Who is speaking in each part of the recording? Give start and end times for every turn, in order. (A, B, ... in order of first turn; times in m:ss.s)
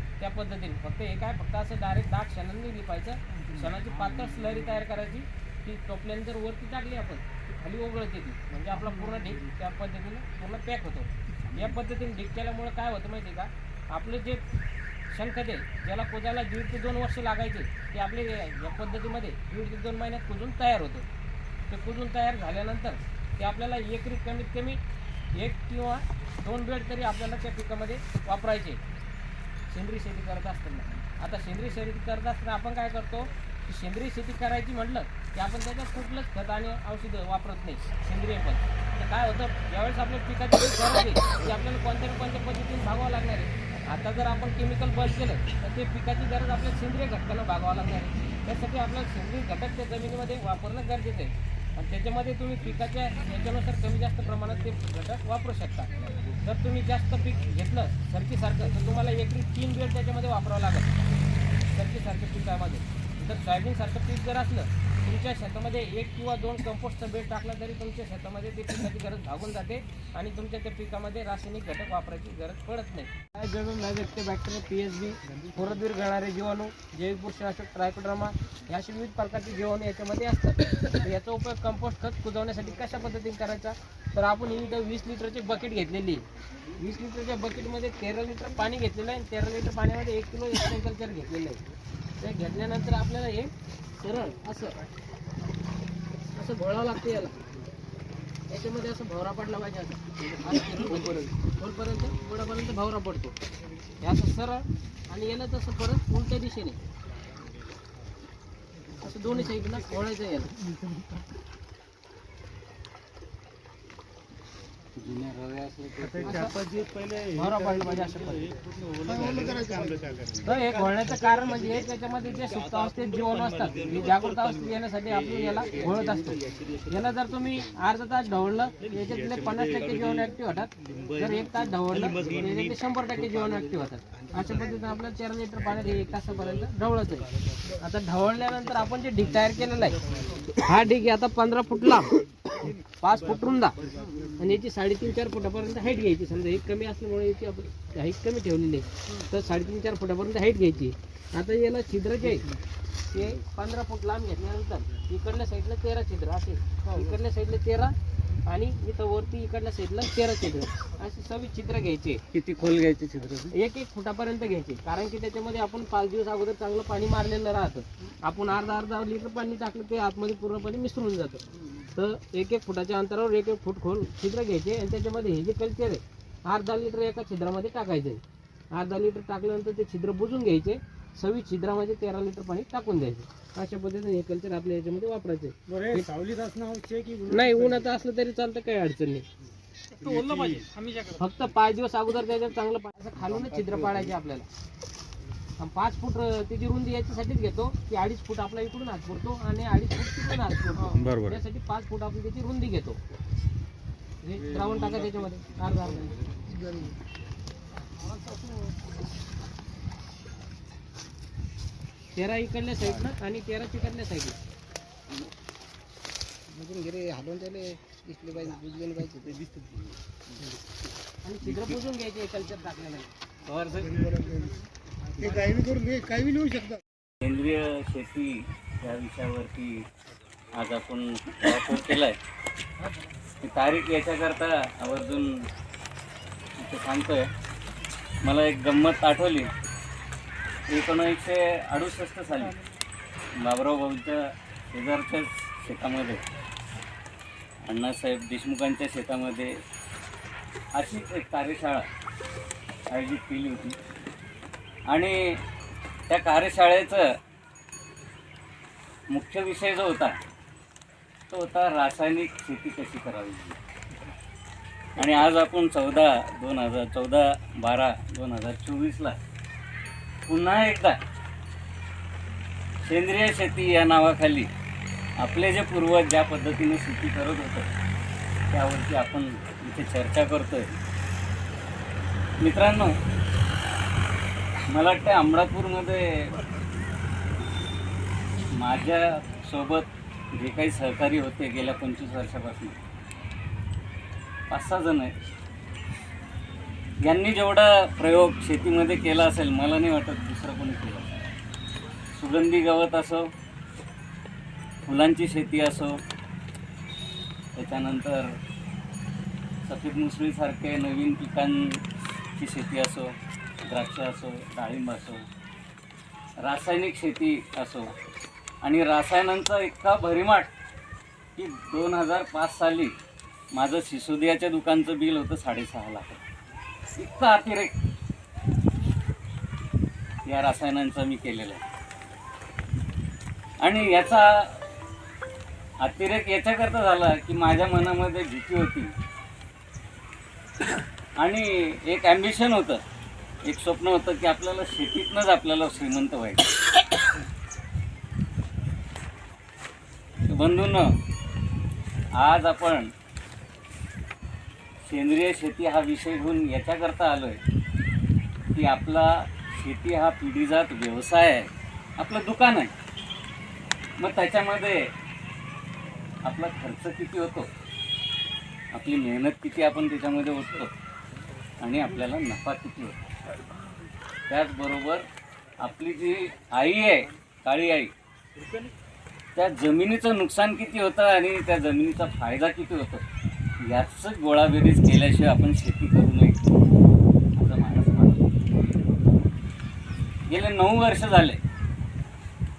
0:00.2-0:14.4 A
0:15.1-0:21.1 A
0:21.7-0:24.8 A
0:25.3-0:28.8 A
0:29.7-1:01.0 A
1:01.7-1:26.2 A
1:26.8-1:31.6 A
1:32.2-1:34.8 A
1:36.4-1:37.4 A
1:38.5-1:43.4 A
1:44.0-1:46.8 A
1:49.0-1:50.5 A
1:55.0-1:56.4 B
1:56.2-1:56.6 A
1:57.3-1:59.7 A
2:00.4-2:17.3 A
2:17.8-2:20.0 A
2:20.6-2:22.2 A
2:23.0-2:23.8 A
2:24.4-2:32.5 A
2:33.1-2:37.9 A
2:38.5-2:42.2 A
2:42.3-2:43.5 B
2:43.5-2:51.4 A
2:51.9-2:58.2 A
2:58.7-3:06.1 A
3:05.7-3:07.8 C
3:07.3-3:09.3 A
3:10.0-3:10.7 C
3:11.1-3:14.5 A
3:13.4-3:13.7 C
3:15.6-3:23.0 A
3:24.2-3:26.2 A
3:26.5-3:26.9 C
3:32.1-3:34.4 A
3:36.5-3:39.5 C
3:41.2-3:43.1 A
3:43.7-3:44.6 C
3:45.2-3:46.8 C
3:47.2-3:49.9 B
3:50.5-3:52.2 B
3:53.4-3:55.5 B
3:56.6-3:57.3 B
3:58.2-3:59.5 B
4:00.7-4:02.6 B
4:03.4-4:06.2 B
4:07.6-4:09.6 B
4:10.8-4:11.9 B
4:12.9-4:13.8 B
4:14.9-4:15.4 B
4:16.1-4:17.2 B
4:19.1-4:20.2 B
4:21.3-4:23.6 B
4:25.0-4:29.2 B
4:30.3-4:31.0 B
4:32.8-4:34.5 B
4:35.2-4:37.7 B
4:38.5-4:40.7 B
4:42.4-4:43.0 B
4:44.7-4:46.4 B
4:48.5-4:52.8 B
4:54.5-4:55.1 B
4:57.0-5:01.1 B
5:02.1-5:03.3 B
5:04.9-5:06.0 B
5:07.6-5:08.4 B
5:09.6-5:11.8 B
5:12.4-5:13.1 B
5:13.6-5:15.2 B
5:16.4-5:17.9 B
5:18.6-5:20.5 B
5:21.4-5:22.9 B
5:23.5-5:26.2 B
5:27.0-5:27.7 B
5:30.2-5:31.6 B
5:33.6-5:34.6 B
5:35.8-5:38.9 B
5:41.2-5:42.8 B
5:43.4-5:46.5 B
5:50.3-5:50.9 B
5:52.1-5:52.9 B
5:54.9-5:57.4 B
5:58.5-6:02.7 B
6:04.0-6:04.9 B
6:06.2-6:07.5 B
6:08.7-6:10.7 B
6:11.6-6:13.0 B
6:14.3-6:15.0 B
6:15.6-6:17.9 B
6:19.4-6:23.0 B
6:23.6-6:26.4 B
6:27.4-6:28.3 B
6:30.3-6:31.4 B